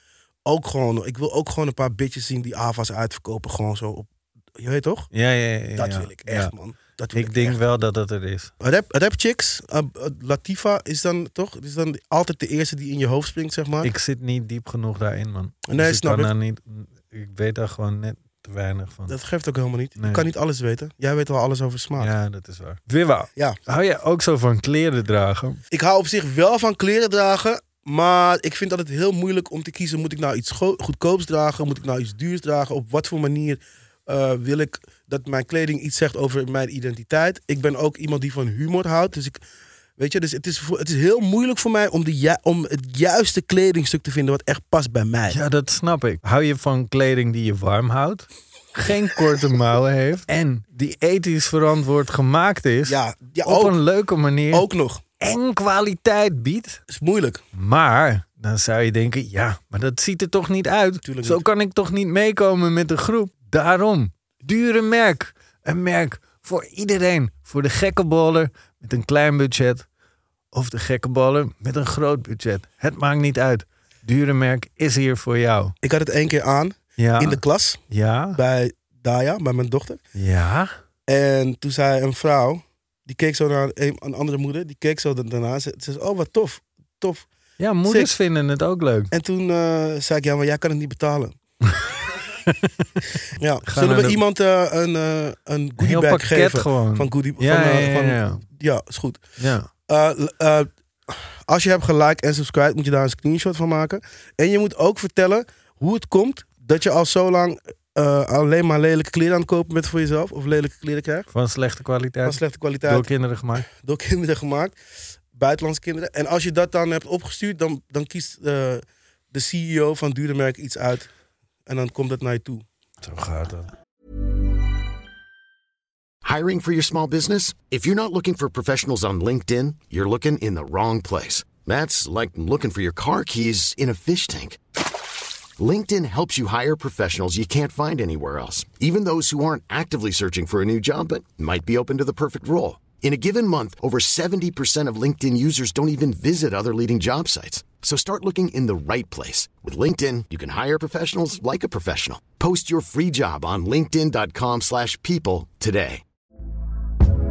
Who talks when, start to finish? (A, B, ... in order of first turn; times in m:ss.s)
0:00.4-0:05.1 A
0:05.1-0:06.5 B
0:05.8-0:07.6 A
0:07.1-0:08.5 B
0:08.6-0:13.9 A
0:13.8-0:19.2 B
0:15.7-0:16.3 A
0:19.1-0:22.1 A
0:20.0-0:20.3 B
0:22.0-0:25.6 B
0:25.7-0:39.4 A
0:40.0-0:45.4 A
0:45.3-0:54.7 B
0:52.8-0:53.8 A
0:54.5-0:55.0 A
0:55.2-0:56.8 B
0:56.9-0:57.4 A
0:57.5-1:09.8 B
1:01.0-1:01.4 A
1:10.5-1:15.7 B
1:15.8-1:17.8 A
1:17.0-1:18.4 B
1:18.3-1:20.0 A
1:20.1-1:20.7 B
1:21.1-1:27.3 A
1:27.6-1:29.1 B
1:27.8-1:28.1 A
1:29.1-1:31.4 A
1:31.6-1:34.2 B
1:33.3-1:39.2 A
1:35.8-1:38.4 B
1:39.4-1:39.7 B
1:39.9-1:51.3 A
1:51.3-1:53.6 B
1:52.2-1:54.8 A
1:55.3-2:01.1 A
2:01.6-2:02.6 A
2:03.0-2:03.7 B
2:06.2-2:14.6 C
2:15.6-2:36.0 C